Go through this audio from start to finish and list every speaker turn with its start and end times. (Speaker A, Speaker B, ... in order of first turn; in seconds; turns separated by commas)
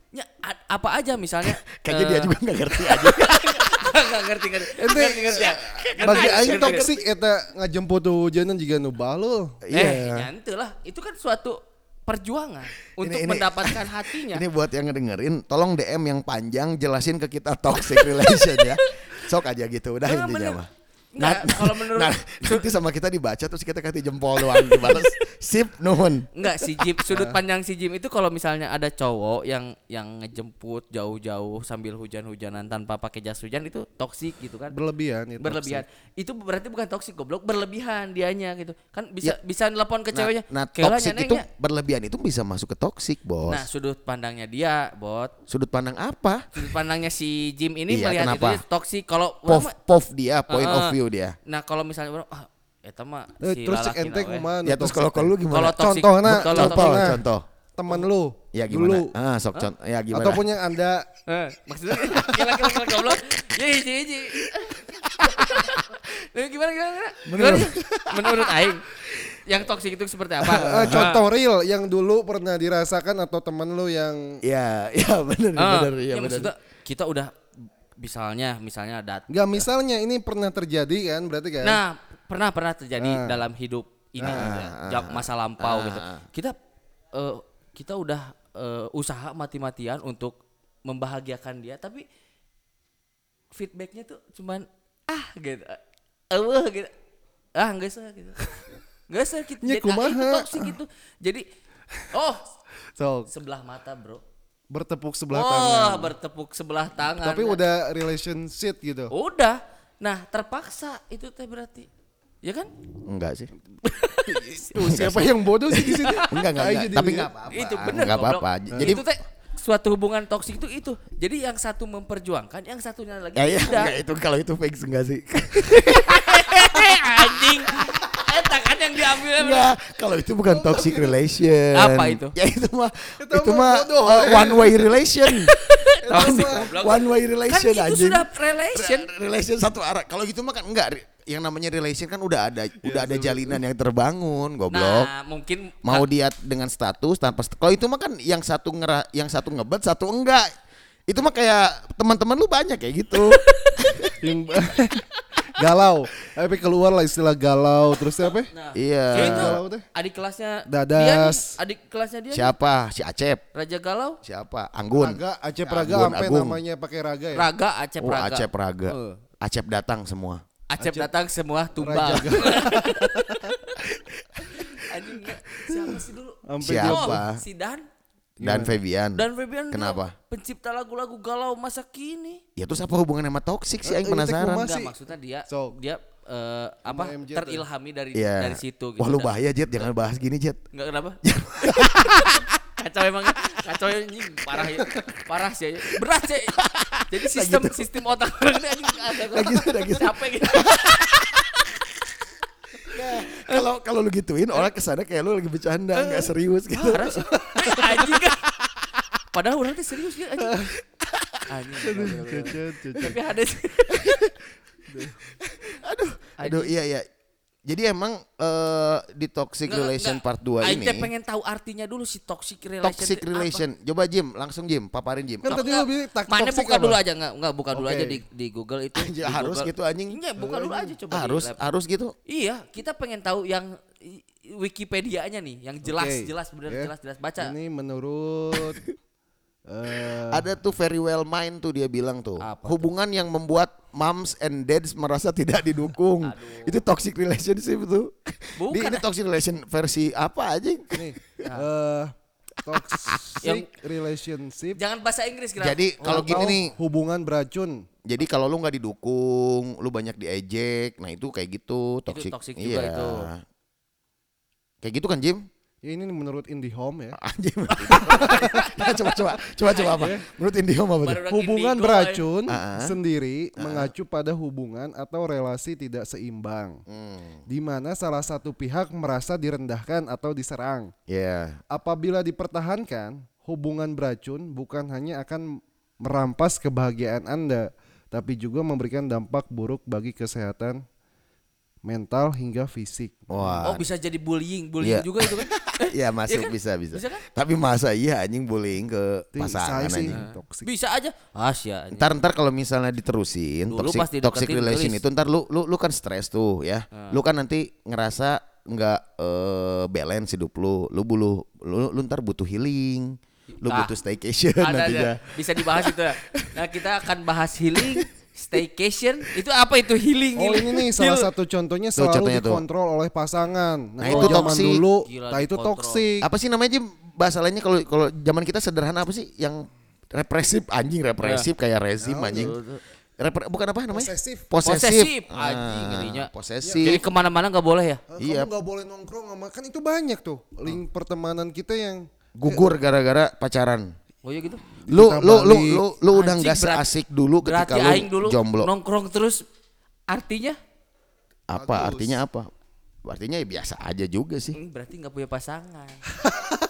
Speaker A: 0.1-7.0, Speaker B: 1.4-3.9, Speaker C: 4.8-9.6, Speaker B: 6.0-6.3, Speaker B: 9.6-10.3, Speaker A: 9.7-14.4, Speaker B: 13.0-20.7, Speaker A: 17.8-19.2, Speaker A: 20.0-20.6, Speaker A: 21.1-22.7, Speaker B: 21.2-26.9, Speaker A: 24.4-25.1, Speaker A: 26.3-34.8, Speaker C: 27.1-27.4, Speaker C: 34.7-35.8, Speaker A: 35.4-41.5, Speaker B: 40.1-43.6, Speaker A: 43.5-45.3, Speaker B: 45.5-46.4, Speaker A: 46.5-49.7, Speaker B: 47.9-48.6, Speaker B: 49.5-51.4, Speaker A: 50.5-54.5, Speaker C: 53.4-57.2, Speaker B: 54.6-57.4, Speaker A: 55.5-57.2, Speaker C: 57.8-59.1, Speaker B: 58.5-60.5, Speaker C: 60.1-61.1, Speaker A: 61.3-68.8, Speaker B: 62.1-63.2, Speaker B: 64.5-65.7, Speaker B: 67.2-69.2, Speaker A: 69.5-71.2, Speaker B: 70.4-71.0, Speaker C: 70.6-74.4, Speaker B: 74.4-76.5, Speaker A: 75.5-77.3, Speaker A: 78.0-79.6, Speaker C: 79.3-81.8, Speaker A: 81.6-86.5, Speaker C: 83.0-83.4, Speaker C: 84.2-84.5, Speaker B: 84.2-86.3, Speaker A: 87.1-92.0, Speaker A: 93.5-95.8, Speaker A: 96.3-96.9, Speaker A: 97.5-98.5, Speaker A: 99.1-101.4, Speaker C: 99.6-100.8, Speaker A: 102.1-102.4, Speaker C: 103.0-103.3, Speaker A: 103.3-104.2, Speaker C: 104.7-106.1, Speaker A: 105.3-107.6, Speaker C: 107.2-109.1, Speaker A: 109.1-111.9, Speaker A: 112.4-112.7, Speaker B: 113.1-113.5, Speaker A: 113.8-115.2, Speaker C: 114.1-117.3, Speaker B: 114.8-119.0, Speaker A: 116.0-116.3, Speaker A: 117.5-123.9, Speaker B: 123.3-128.1, Speaker A: 125.5-129.7, Speaker B: 129.2-135.6, Speaker C: 130.5-131.1, Speaker A: 131.7-132.3, Speaker C: 133.2-134.9, Speaker A: 135.5-139.1, Speaker C: 135.7-136.7, Speaker B: 136.1-145.1, Speaker C: 142.8-143.6, Speaker A: 144.7-146.1, Speaker B: 145.8-150.5, Speaker B: 151.1-154.1, Speaker A: 153.3-153.8, Speaker C: 154.2-158.5, Speaker A: 155.1-155.7, Speaker A: 158.5-162.5, Speaker B: 158.7-159.6, Speaker C: 159.1-159.8, Speaker C: 160.7-161.6, Speaker B: 162.3-163.4, Speaker A: 163.5-164.2, Speaker B: 164.2-166.6, Speaker C: 164.9-167.5, Speaker A: 167.3-169.2, Speaker B: 168.0-170.4, Speaker A: 170.7-173.8, Speaker C: 170.8-171.1, Speaker C: 171.8-173.5, Speaker B: 173.8-174.7, Speaker A: 174.4-177.8, Speaker C: 175.7-177.2, Speaker B: 176.6-177.4, Speaker C: 178.4-178.8, Speaker B: 178.4-180.1, Speaker A: 179.2-182.4, Speaker B: 182.6-184.7, Speaker C: 183.8-184.9, Speaker A: 184.6-189.3, Speaker C: 185.5-185.8, Speaker C: 186.8-187.7, Speaker B: 188.1-190.6, Speaker A: 190.7-196.6, Speaker B: 191.2-192.5, Speaker B: 196.6-197.9, Speaker A: 197.1-201.8, Speaker B: 198.9-201.3, Speaker B: 202.9-208.9, Speaker A: 202.9-203.6, Speaker A: 205.9-208.4, Speaker C: 207.2-207.5, Speaker A: 209.3-210.7, Speaker A: 211.4-214.2, Speaker C: 211.8-213.2, Speaker B: 213.9-214.3, Speaker C: 214.9-215.2, Speaker B: 215.2-217.0, Speaker A: 216.4-216.7, Speaker B: 217.7-221.1, Speaker A: 219.7-223.6, Speaker B: 222.8-225.6, Speaker C: 225.4-227.0, Speaker A: 225.5-231.6, Speaker C: 227.7-228.2, Speaker B: 228.9-230.2, Speaker C: 230.4-231.0, Speaker B: 231.1-232.1, Speaker A: 232.3-237.5, Speaker C: 235.8-238.9, Speaker C: 239.7-240.5, Speaker B: 240.1-251.4, Speaker A: 242.4-242.9, Speaker A: 246.2-246.8, Speaker A: 248.6-249.0, Speaker C: 250.9-254.8, Speaker A: 253.4-253.7, Speaker A: 254.7-256.5, Speaker B: 255.6-256.7, Speaker C: 256.0-257.8, Speaker B: 258.1-263.4, Speaker A: 262.1-263.3, Speaker B: 264.8-265.4, Speaker C: 265.8-267.2, Speaker B: 267.1-271.2, Speaker A: 267.7-269.0, Speaker C: 267.9-268.6, Speaker A: 269.6-270.2, Speaker A: 271.0-272.3, Speaker C: 271.3-276.8, Speaker B: 272.5-272.9, Speaker B: 273.6-273.9, Speaker B: 276.9-277.4, Speaker C: 277.5-280.9, Speaker B: 281.1-281.6, Speaker C: 281.7-290.8, Speaker C: 291.8-293.7, Speaker B: 293.3-293.8, Speaker A: 293.6-297.2, Speaker B: 294.8-300.2, Speaker C: 299.3-300.7, Speaker A: 300.1-302.1, Speaker B: 301.9-316.6, Speaker A: 303.7-305.0, Speaker A: 306.9-307.2, Speaker A: 313.6-313.9, Speaker A: 314.6-321.3, Speaker C: 320.4-326.3, Speaker B: 321.9-322.6, Speaker B: 324.0-324.8, Speaker A: 324.0-326.1, Speaker B: 326.2-332.6, Speaker A: 331.2-331.5, Speaker C: 332.0-332.5, Speaker A: 332.3-332.8, Speaker B: 333.2-337.0, Speaker C: 333.9-334.5, Speaker A: 334.6-338.0, Speaker C: 336.6-337.0, Speaker C: 338.1-342.7, Speaker B: 338.2-338.5, Speaker B: 342.4-343.9, Speaker A: 344.2-344.6, Speaker C: 344.8-345.8, Speaker B: 344.9-348.7, Speaker A: 346.1-349.4, Speaker A: 350.1-350.6, Speaker B: 351.5-352.5, Speaker C: 351.5-352.2, Speaker B: 353.1-354.6, Speaker A: 354.5-356.1, Speaker C: 356.3-356.6